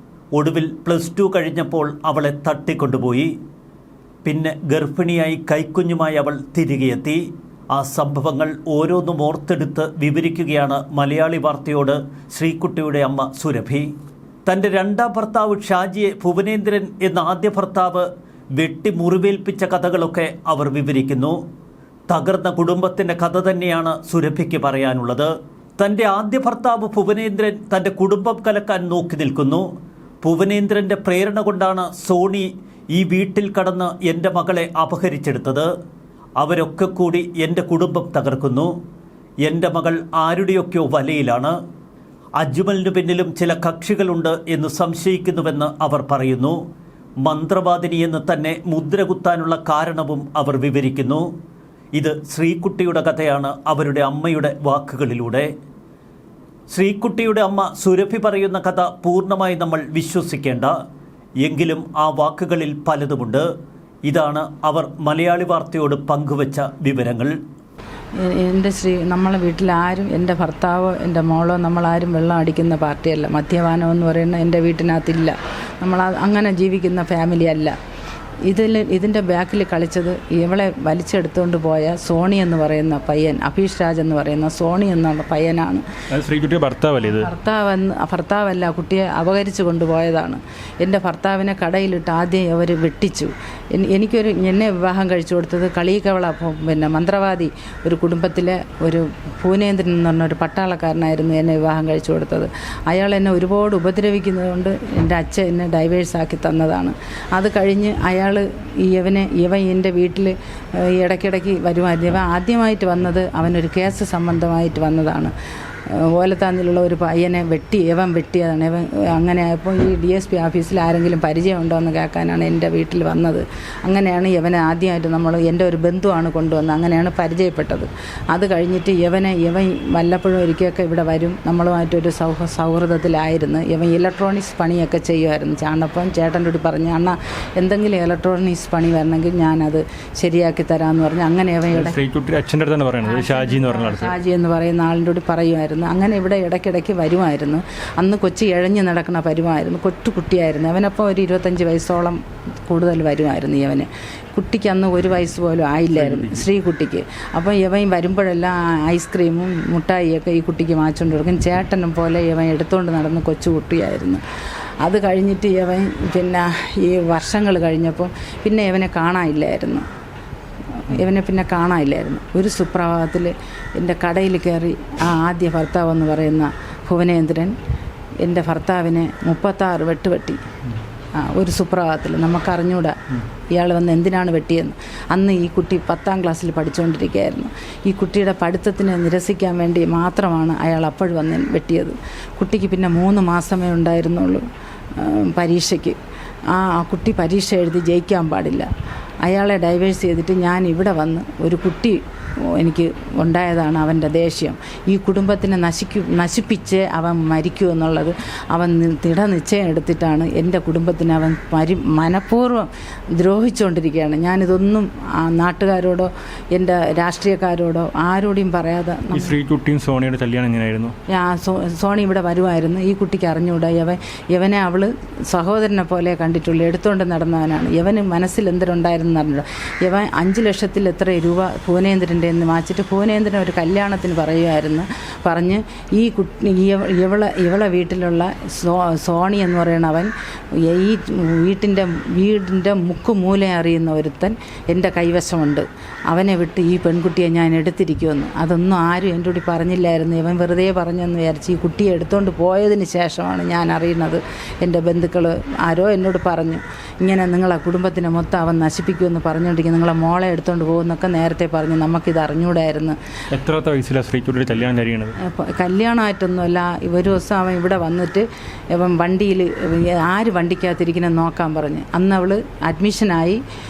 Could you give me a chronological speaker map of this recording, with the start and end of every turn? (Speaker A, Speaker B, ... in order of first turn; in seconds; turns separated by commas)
Speaker A: 0.3-3.3, Speaker A: 4.2-13.9, Speaker A: 14.4-21.4, Speaker A: 22.1-29.7, Speaker A: 30.2-35.7, Speaker A: 36.4-38.7, Speaker A: 39.4-41.6, Speaker A: 42.4-46.6, Speaker A: 47.2-51.3, Speaker A: 51.9-55.5, Speaker A: 56.7-60.8, Speaker A: 61.4-63.5, Speaker A: 64.0-67.4, Speaker B: 68.2-77.8, Speaker B: 78.5-85.8, Speaker C: 86.1-87.3, Speaker B: 87.0-115.3, Speaker B: 116.0-142.0, Speaker C: 141.7-144.1, Speaker B: 143.0-164.2, Speaker C: 155.9-156.5, Speaker B: 164.8-169.8, Speaker B: 170.8-177.5, Speaker B: 178.2-180.4, Speaker B: 181.1-183.0, Speaker B: 183.5-194.4, Speaker B: 195.0-196.0, Speaker B: 196.5-198.7, Speaker B: 199.2-202.0, Speaker B: 202.6-219.3, Speaker C: 219.1-220.9, Speaker B: 221.1-263.0, Speaker C: 263.3-265.1, Speaker B: 265.2-273.4